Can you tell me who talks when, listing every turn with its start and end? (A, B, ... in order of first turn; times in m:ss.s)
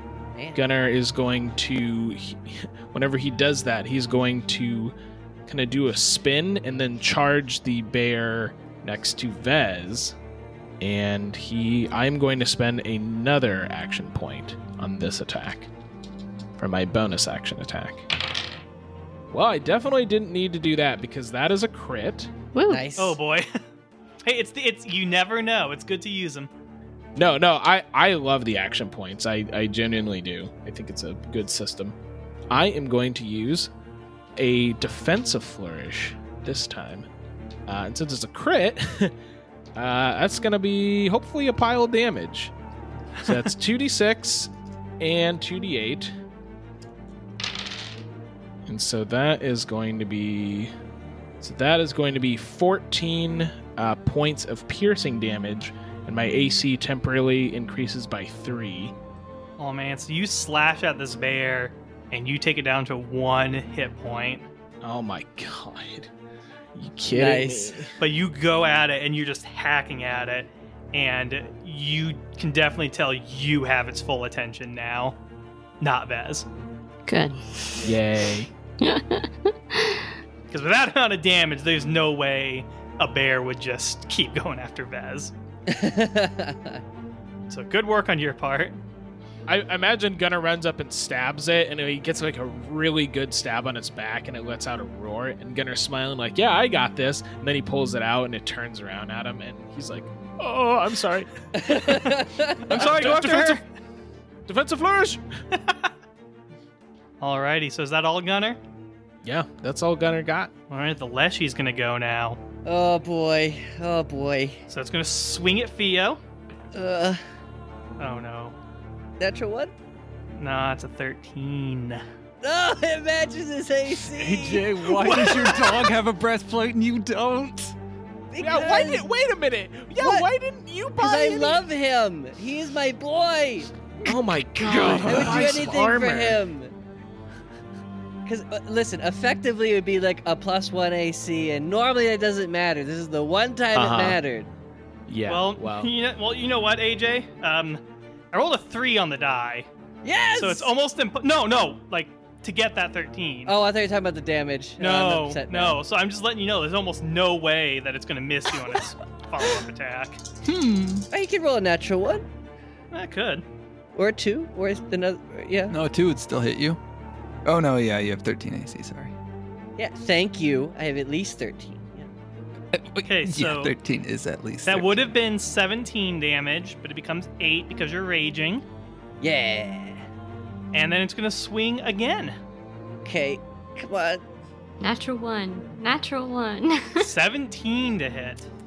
0:00.4-0:00.6 A
0:00.6-0:04.9 B
0:05.5-0:10.2 B
0:10.8-0:15.7 B
0:16.6-0:18.1 B
0:19.3-0:22.3 B
0:22.6-0:22.9 C
0:22.7-0:23.2 A
0:23.0-0:23.5 D
0:24.2-0:26.5 D
0:27.2-0:32.0 B
0:32.5-0:33.7 B
0:34.4-0:37.1 B
0:37.7-0:39.1 B
0:39.8-0:42.5 B
0:43.2-0:43.5 D
0:43.2-0:46.1 B
0:48.7-0:50.7 B
0:51.4-0:58.9 B
0:59.6-1:04.5 D
1:04.8-1:06.1 B
1:06.8-1:07.9 B
1:07.1-1:07.8 A
1:08.0-1:15.2 D
1:15.8-1:16.5 D
1:17.1-1:17.9 C
1:17.8-1:18.5 B
1:18.8-1:20.1 C
1:20.5-1:25.3 D
1:25.7-1:26.8 A
1:27.5-1:28.8 D
1:29.5-1:42.1 B
1:41.6-1:42.7 A
1:41.9-1:42.1 D
1:42.7-1:43.6 D
1:42.7-1:43.6 B
1:44.5-1:45.2 B
1:45.5-1:45.9 D
1:47.2-1:48.6 D
1:49.2-1:50.5 B
1:50.7-1:52.4 D
1:52.6-1:54.6 A
1:54.7-1:56.2 D
1:56.7-1:57.2 A
1:58.0-1:58.6 D
1:59.2-1:59.7 A
2:00.4-2:02.0 D
2:02.4-2:05.8 A
2:04.1-2:07.8 E
2:08.3-2:09.1 A
2:08.4-2:11.6 B
2:10.0-2:10.3 A
2:11.0-2:14.1 A
2:14.0-2:16.4 B
2:14.6-2:16.7 A
2:15.1-2:15.6 E
2:18.3-2:24.5 A
2:23.7-2:24.2 B
2:25.1-2:25.9 B
2:25.3-2:27.8 D
2:28.3-2:29.7 D
2:30.0-2:30.7 A
2:30.4-2:33.5 D
2:33.5-2:35.8 A
2:34.8-2:40.2 D
2:40.4-2:41.1 E
2:41.1-2:42.2 A
2:42.9-2:43.4 D
2:44.0-2:45.7 A
2:45.7-2:46.8 E
2:47.4-2:49.2 E
2:49.8-2:52.1 A
2:52.7-2:55.1 E
2:53.0-2:53.7 D
2:54.7-2:58.6 D
2:59.2-3:00.0 A
3:00.7-3:02.3 D
3:03.0-3:04.2 A
3:04.8-3:07.1 C
3:07.0-3:08.5 D